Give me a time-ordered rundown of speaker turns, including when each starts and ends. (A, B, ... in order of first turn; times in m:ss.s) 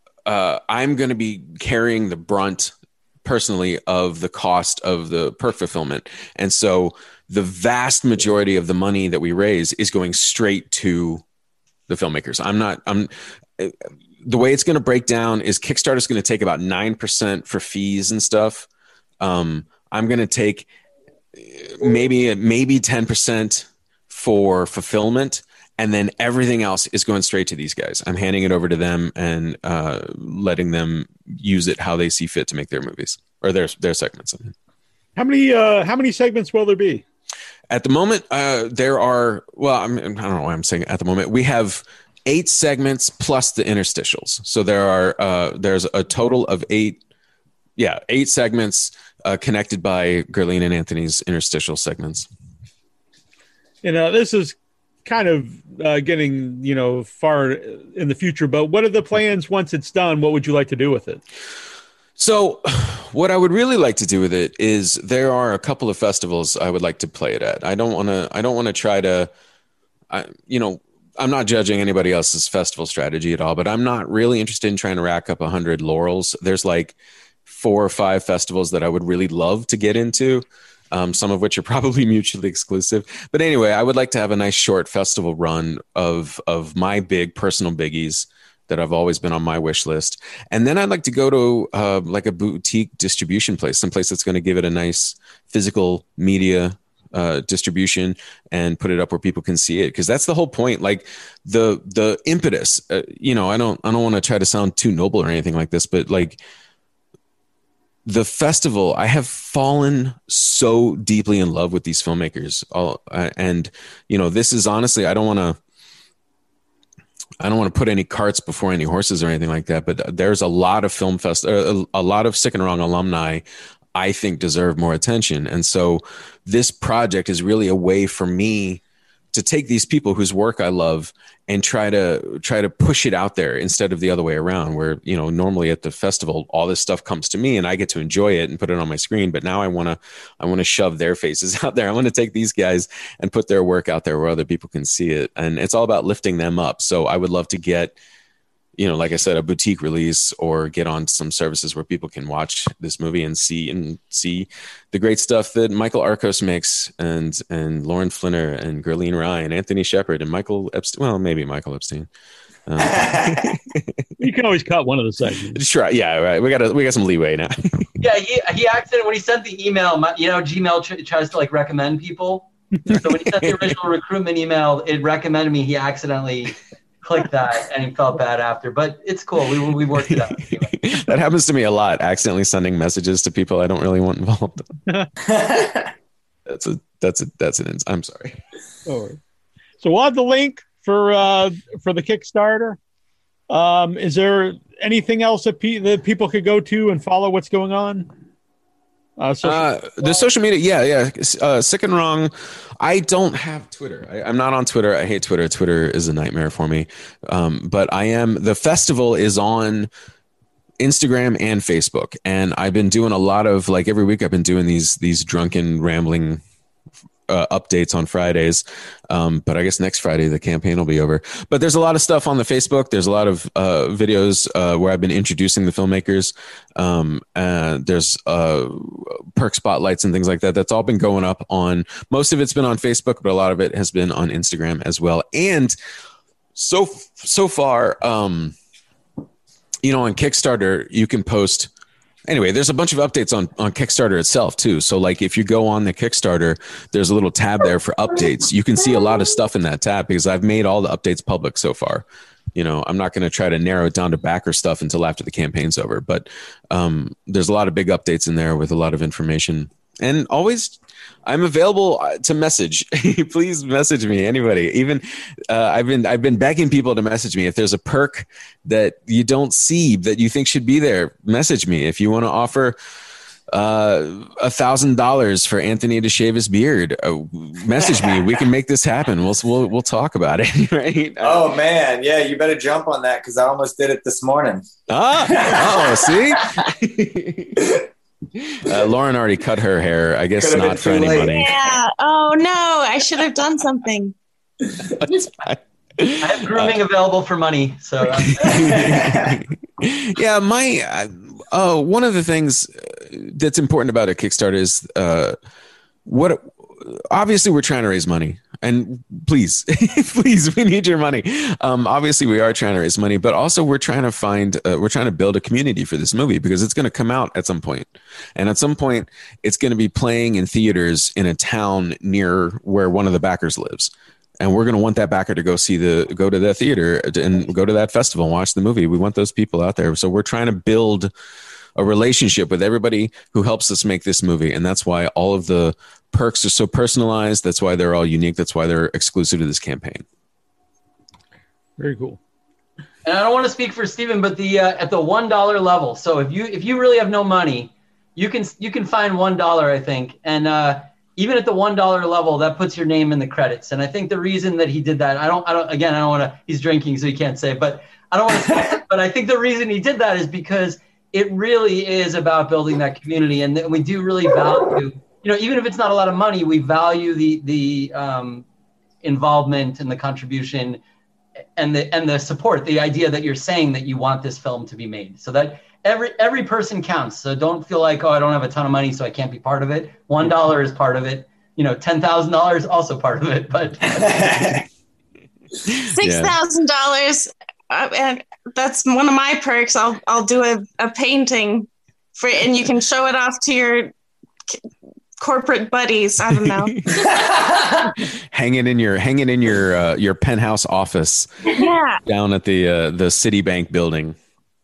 0:00.2-0:11.2 A
0:11.9-0:18.7 A
0:19.2-0:20.7 A
0:21.3-0:34.5 A
0:35.2-0:37.0 B
0:37.7-0:47.0 A
0:47.8-0:52.3 A
0:53.8-1:01.2 B
1:02.2-1:09.3 A
1:10.1-1:46.4 A
1:48.0-1:55.6 A
1:57.4-2:08.8 A
2:09.3-2:28.0 A
2:28.8-2:42.1 A
2:42.7-2:44.0 A
2:42.8-2:43.6 C
2:44.2-2:45.6 B
2:45.5-2:47.8 A
2:48.0-3:00.8 D
2:52.9-2:53.7 A
3:00.0-3:04.7 A
3:05.2-3:05.9 C
3:06.5-3:08.4 A
3:08.8-3:09.2 B
3:09.8-3:12.8 B
3:13.5-3:18.1 B
3:19.2-3:20.2 B
3:19.4-3:29.9 A
3:30.8-3:36.4 A
3:37.3-3:55.7 A
3:56.6-3:58.5 A
3:59.8-4:01.7 A
4:02.3-4:12.0 A
4:12.5-4:32.8 A
4:33.5-4:41.5 A
4:37.9-4:38.3 C
4:41.2-4:44.6 C
4:44.9-4:47.7 A
4:45.2-4:46.6 C
4:48.4-4:51.5 A
4:50.4-4:51.5 C
4:51.3-4:54.1 E
4:55.0-4:56.8 A
4:56.2-4:58.8 D
4:58.4-5:05.4 A
4:58.4-4:59.4 C
5:06.0-5:31.1 A
5:31.8-5:40.0 A
5:41.8-5:42.2 B
5:43.0-6:08.4 D
6:09.0-6:10.8 D
6:11.6-6:24.3 D
6:23.9-6:24.6 C
6:25.7-6:26.3 A
6:25.9-6:33.9 E
6:35.2-6:36.8 E
6:36.5-6:36.8 A
6:37.0-6:37.9 C
6:38.3-6:41.3 A
6:41.5-6:42.0 E
6:42.0-6:44.2 A